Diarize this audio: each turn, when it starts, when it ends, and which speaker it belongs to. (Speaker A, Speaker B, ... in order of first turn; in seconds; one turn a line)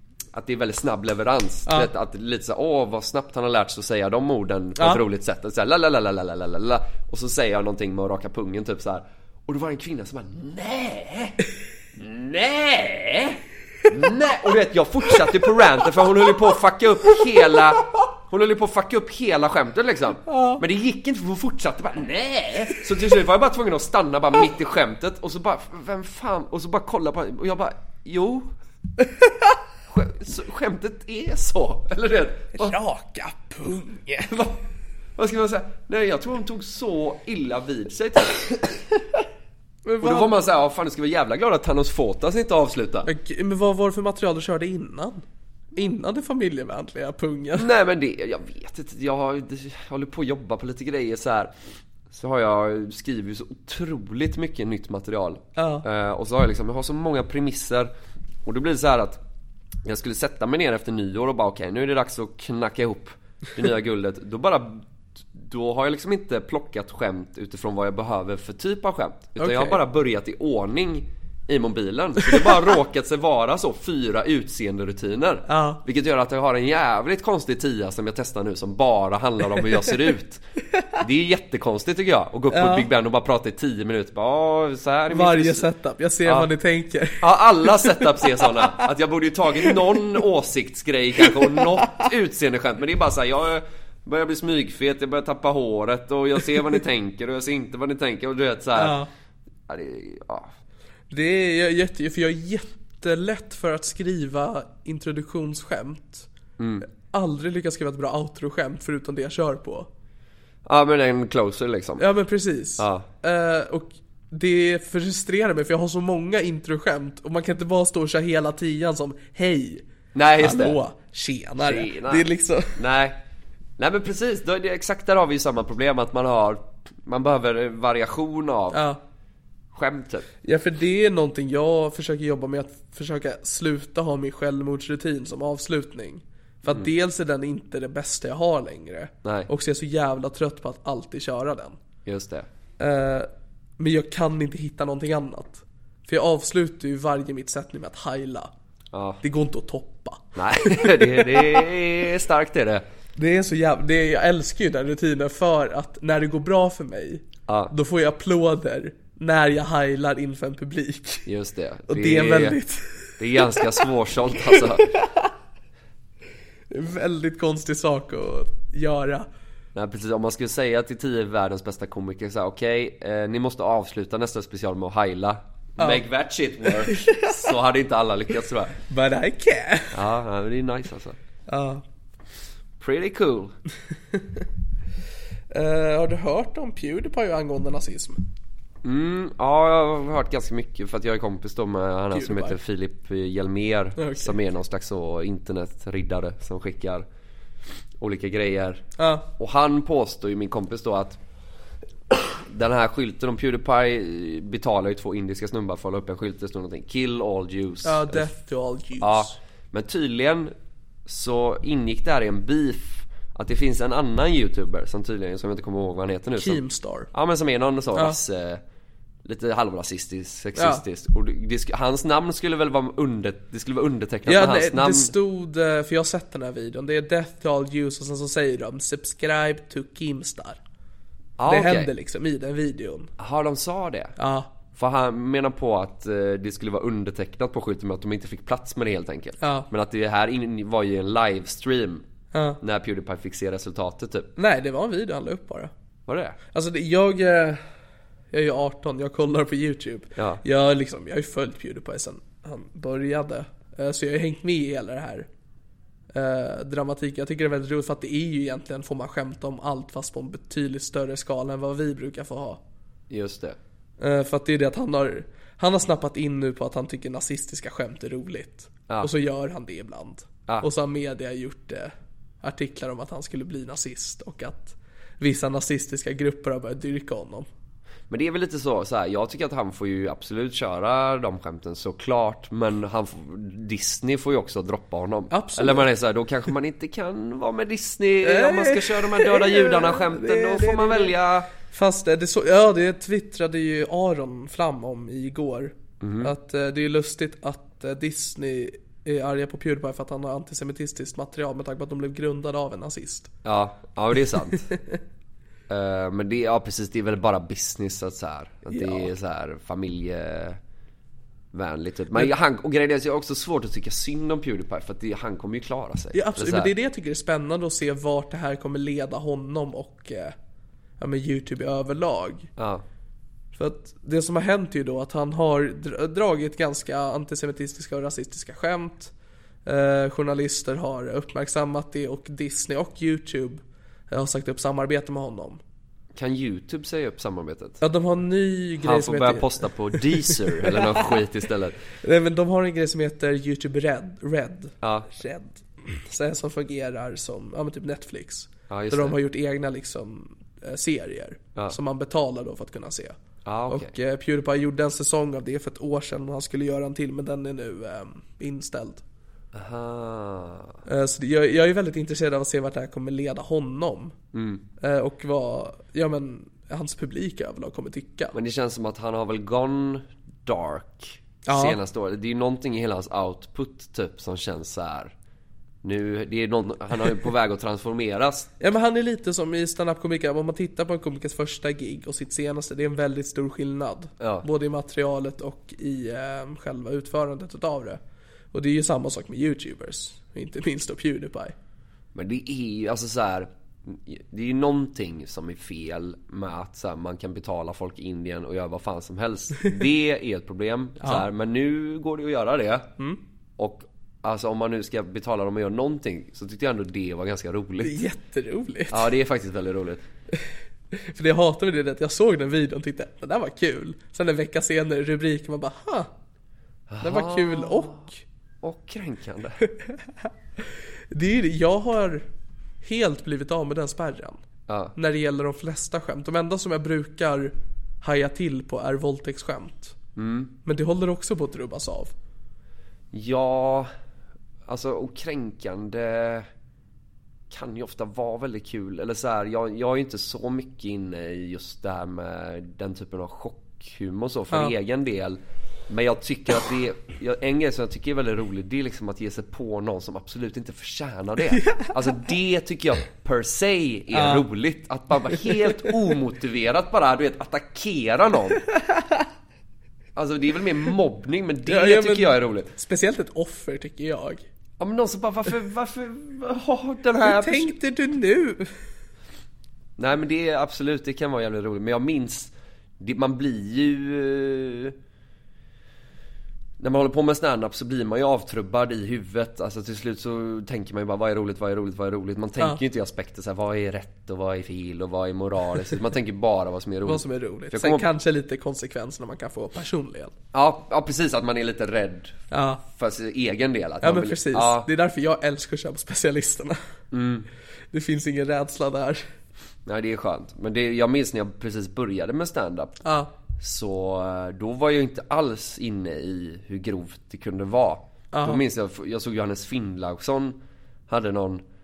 Speaker A: 0.3-11.4
Speaker A: 11.9-28.5
Speaker B: 20.3-20.6
Speaker A: 29.9-32.8
Speaker B: 32.5-34.5
Speaker A: 35.2-38.8
Speaker B: 39.9-40.3
Speaker A: 40.0-43.1
Speaker B: 43.0-45.2
Speaker B: 45.7-47.6
Speaker A: 47.5-51.5
Speaker A: 52.1-57.9
Speaker B: 55.6-55.8
Speaker A: 58.4-59.2
Speaker A: 59.8-80.4
Speaker B: 69.4-69.8
Speaker B: 75.5-75.8
Speaker A: 81.0-85.7
Speaker B: 82.5-82.9
Speaker B: 85.1-88.4
Speaker A: 87.2-99.0
Speaker B: 91.2-92.0
Speaker B: 98.7-99.1
Speaker A: 99.7-100.5
Speaker B: 101.1-106.3
Speaker A: 106.6-106.8
Speaker B: 106.9-109.9
Speaker A: 110.7-112.0
Speaker B: 112.0-119.8
Speaker A: 112.8-113.1
Speaker A: 120.1-120.8
Speaker B: 120.4-122.8
Speaker A: 121.6-123.2
Speaker A: 123.8-128.8
Speaker B: 128.7-129.0
Speaker A: 129.7-130.3
Speaker B: 130.4-141.8
Speaker A: 139.2-139.5
Speaker A: 142.1-142.5
Speaker B: 142.8-148.5
Speaker A: 148.9-149.2
Speaker B: 149.2-151.6
Speaker A: 150.3-152.8
Speaker B: 153.2-161.3
Speaker A: 157.5-157.7
Speaker A: 161.2-162.6
Speaker B: 161.9-163.7
Speaker A: 163.2-164.9
Speaker B: 164.5-165.3
Speaker B: 166.7-169.3
Speaker A: 169.7-178.8
Speaker B: 176.8-177.5
Speaker B: 178.9-180.0
Speaker A: 179.9-181.2
Speaker B: 181.5-181.8
Speaker A: 182.8-183.5
Speaker B: 185.5-188.2
Speaker A: 188.8-197.0
Speaker B: 192.1-192.6
Speaker B: 194.0-194.3
Speaker A: 198.0-201.2
Speaker B: 199.0-199.2
Speaker A: 202.5-208.3
Speaker B: 207.8-209.3
Speaker A: 209.0-210.5
Speaker A: 211.1-216.6
Speaker B: 216.4-217.1
Speaker A: 217.1-218.6
Speaker A: 219.2-225.1
Speaker B: 220.6-220.8
Speaker B: 224.2-230.6
Speaker A: 231.4-231.9
Speaker B: 231.5-233.1
Speaker A: 233.2-234.1
Speaker B: 234.2-234.5
Speaker A: 234.7-242.0
Speaker B: 239.4-239.7
Speaker B: 242.3-242.6
Speaker A: 242.6-244.3
Speaker B: 244.4-245.7
Speaker A: 246.1-246.4
Speaker B: 246.5-247.6
Speaker B: 248.3-255.3
Speaker A: 250.2-250.4
Speaker B: 256.1-262.6
Speaker A: 263.1-263.6
Speaker B: 264.0-277.5
Speaker A: 278.1-291.5
Speaker B: 285.3-285.9
Speaker B: 288.2-303.3
Speaker A: 296.0-296.3
Speaker A: 303.4-304.7
Speaker B: 304.7-304.9
Speaker A: 305.7-310.6
Speaker B: 308.7-309.1
Speaker A: 311.5-316.7
Speaker B: 316.1-320.3
Speaker B: 321.0-322.5
Speaker A: 322.6-322.8
Speaker B: 323.6-329.1
Speaker B: 329.6-335.6
Speaker A: 336.1-337.8
Speaker B: 337.8-341.0
Speaker A: 338.8-341.8
Speaker B: 342.0-353.2
Speaker A: 344.8-345.1
Speaker A: 348.7-349.2
Speaker A: 353.4-353.9
Speaker B: 353.7-359.0
Speaker A: 359.5-360.8
Speaker B: 360.9-364.1
Speaker A: 364.3-364.6
Speaker B: 364.8-368.3
Speaker A: 368.3-375.1
Speaker B: 371.5-371.8
Speaker A: 375.8-378.5
Speaker B: 378.6-388.0
Speaker A: 384.2-384.4
Speaker B: 388.5-391.5
Speaker A: 392.1-402.9
Speaker A: 403.6-408.0
Speaker B: 407.8-409.1
Speaker A: 408.9-410.0
Speaker B: 410.9-416.1
Speaker A: 416.9-418.1
Speaker B: 417.0-418.2
Speaker A: 418.6-419.6
Speaker B: 419.7-420.3
Speaker B: 421.1-422.2
Speaker B: 422.8-424.4
Speaker A: 424.7-424.9
Speaker B: 424.9-429.9
Speaker A: 430.1-430.5
Speaker B: 430.6-432.1
Speaker A: 433.1-433.9
Speaker A: 434.7-436.5
Speaker A: 437.5-458.6
Speaker B: 451.5-451.9
Speaker B: 454.1-454.4
Speaker B: 455.5-455.9
Speaker B: 458.8-459.2
Speaker A: 460.1-462.7
Speaker B: 461.6-464.4
Speaker A: 464.8-467.7
Speaker B: 467.2-468.7
Speaker A: 470.0-474.9
Speaker A: 476.8-488.1
Speaker B: 487.0-490.3
Speaker A: 490.5-494.9
Speaker B: 492.5-492.8
Speaker B: 494.0-496.8
Speaker A: 497.1-497.5
Speaker B: 497.9-499.2
Speaker A: 499.9-503.0
Speaker B: 503.0-503.3
Speaker A: 503.6-511.6
Speaker B: 508.3-508.6